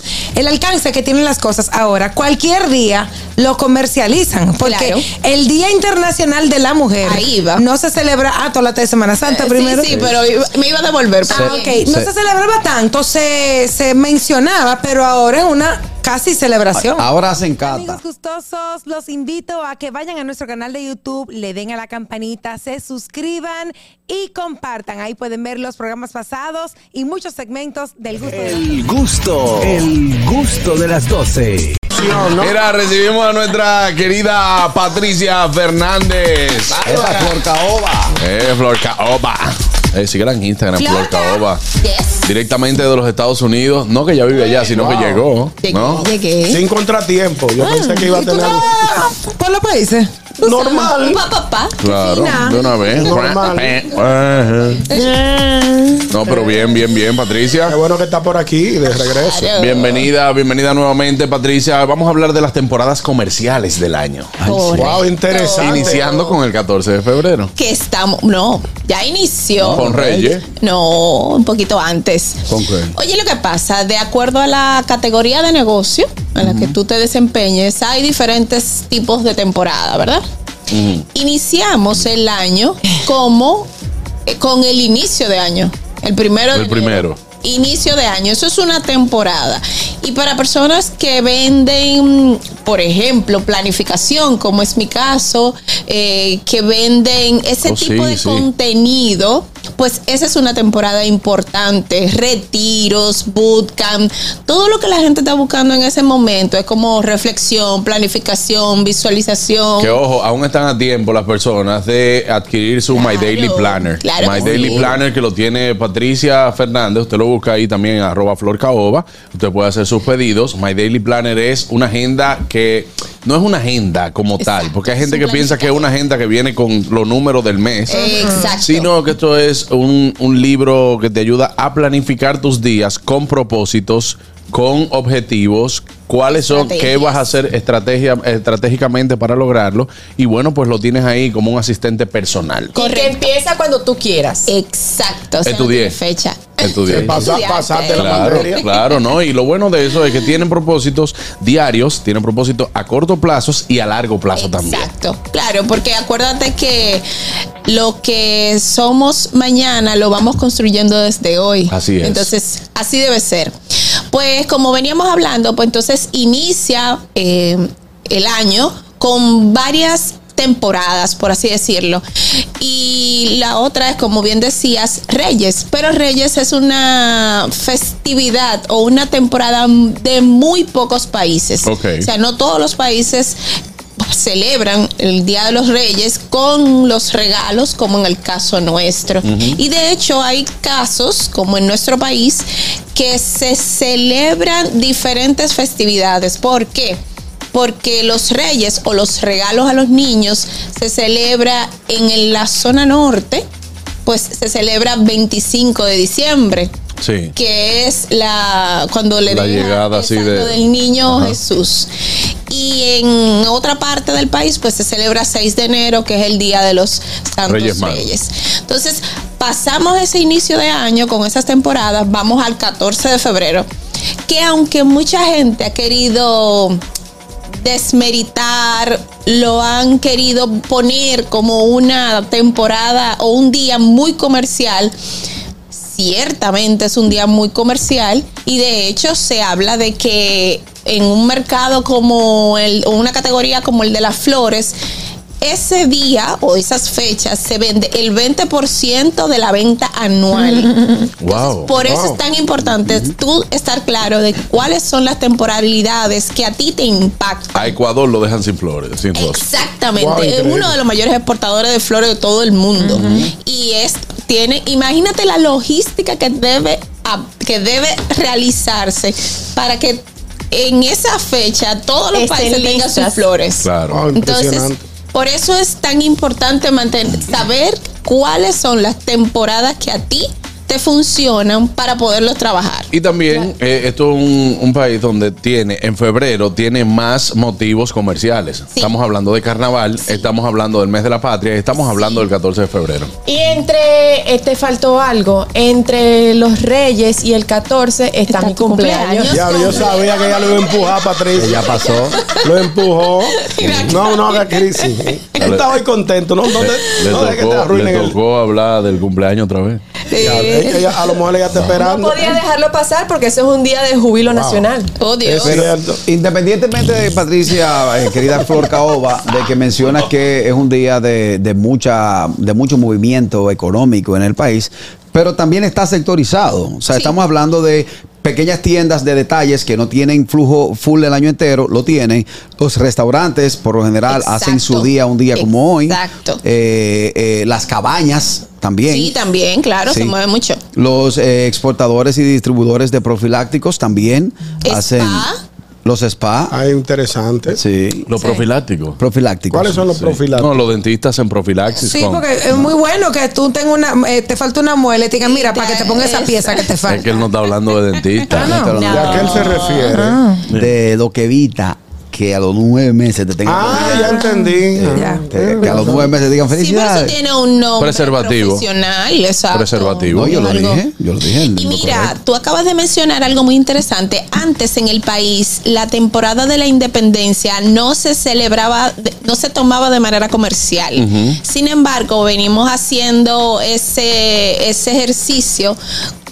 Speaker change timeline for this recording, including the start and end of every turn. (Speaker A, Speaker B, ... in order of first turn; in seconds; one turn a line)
Speaker A: 0.3-9.9
Speaker B: 4.6-5.0
Speaker B: 7.0-7.6
Speaker B: 9.2-11.8
Speaker C: 9.8-10.2
Speaker C: 11.3-12.1
Speaker A: 11.3-17.1
Speaker C: 16.7-18.0
Speaker A: 17.6-28.8
Speaker D: 28.2-31.8
Speaker E: 31.9-32.5
Speaker F: 32.3-37.0
Speaker C: 36.8-38.2
Speaker E: 36.8-37.3
Speaker F: 38.2-41.6
Speaker B: 40.8-42.2
Speaker F: 42.2-46.0
Speaker E: 44.8-45.2
Speaker B: 45.6-46.6
Speaker E: 46.5-48.6
Speaker A: 47.8-50.1
Speaker B: 50.4-51.8
Speaker E: 50.4-51.2
Speaker F: 51.8-54.9
Speaker A: 52.2-52.5
Speaker E: 52.9-53.7
Speaker B: 54.9-56.0
Speaker F: 56.1-57.8
Speaker E: 56.3-56.6
Speaker E: 57.7-59.5
Speaker B: 59.0-60.1
Speaker F: 59.6-64.3
Speaker C: 64.4-65.0
Speaker B: 64.4-66.3
Speaker E: 64.7-66.1
Speaker F: 65.5-67.5
Speaker B: 67.5-80.2
Speaker C: 69.6-70.4
Speaker F: 69.7-70.4
Speaker C: 72.5-73.0
Speaker C: 76.4-76.7
Speaker F: 80.7-81.0
Speaker B: 81.1-83.7
Speaker B: 84.3-110.0
Speaker F: 86.5-87.2
Speaker F: 97.7-98.5
Speaker F: 109.8-128.1
Speaker B: 112.9-115.0
Speaker C: 114.4-115.0
Speaker B: 124.4-125.9
Speaker B: 127.9-128.9
Speaker G: 127.9-128.2
Speaker F: 128.6-142.7
Speaker B: 136.3-137.2
Speaker B: 142.7-143.2
Speaker G: 142.7-144.5
Speaker B: 144.4-148.7
Speaker F: 145.4-145.9
Speaker F: 146.6-147.3
Speaker E: 146.9-148.6
Speaker F: 147.9-154.9
Speaker B: 154.3-157.0
Speaker B: 157.6-163.5
Speaker F: 161.7-162.3
Speaker B: 164.1-172.0
Speaker B: 172.6-183.3
Speaker F: 181.6-182.1
Speaker B: 184.0-197.0
Speaker F: 189.2-189.6
Speaker B: 197.5-203.4
Speaker B: 204.1-206.7
Speaker F: 207.0-207.3
Speaker B: 207.3-211.9
Speaker F: 209.3-210.6
Speaker F: 211.1-211.4
Speaker B: 212.5-223.7
Speaker F: 217.5-218.1
Speaker B: 224.3-226.8
Speaker B: 227.6-234.9
Speaker B: 235.7-244.8
Speaker B: 245.4-257.7
Speaker F: 251.2-251.7
Speaker E: 251.7-252.2
Speaker F: 257.5-259.4
Speaker B: 259.1-282.9
Speaker E: 259.9-260.7
Speaker F: 262.9-263.3
Speaker G: 272.1-273.2
Speaker F: 273.6-274.0
Speaker E: 273.9-274.8
Speaker F: 282.9-293.1
Speaker B: 291.9-292.2
Speaker G: 293.2-300.0
Speaker B: 298.3-301.0
Speaker E: 299.3-301.8
Speaker C: 301.3-302.2
Speaker B: 302.2-302.5
Speaker E: 302.4-308.1
Speaker B: 303.3-304.9
Speaker F: 305.4-305.7
Speaker F: 306.6-309.8
Speaker B: 310.1-311.1
Speaker E: 310.2-312.4
Speaker G: 311.6-314.9
Speaker E: 314.2-314.7
Speaker B: 315.0-315.7
Speaker E: 315.2-316.0
Speaker C: 315.4-339.1
Speaker B: 334.1-336.4
Speaker B: 338.9-340.6
Speaker C: 339.9-340.1
Speaker C: 340.7-345.3
Speaker B: 344.6-345.4
Speaker C: 345.8-346.6
Speaker E: 346.5-347.6
Speaker C: 347.5-348.1
Speaker F: 348.1-349.0
Speaker C: 349.0-349.8
Speaker E: 349.5-350.7
Speaker F: 349.9-352.6
Speaker A: 351.9-357.0
Speaker B: 355.2-356.9
Speaker F: 356.9-358.7
Speaker C: 358.3-359.8
Speaker A: 358.4-358.8
Speaker B: 358.8-359.9
Speaker E: 358.9-360.2
Speaker A: 359.9-360.4
Speaker C: 360.5-364.2
Speaker E: 363.4-366.1
Speaker A: 364.2-365.2
Speaker C: 364.7-367.1
Speaker B: 366.5-370.8
Speaker F: 367.8-368.6
Speaker F: 369.5-370.5
Speaker C: 370.1-372.1
Speaker B: 371.5-385.8
Speaker F: 381.0-381.4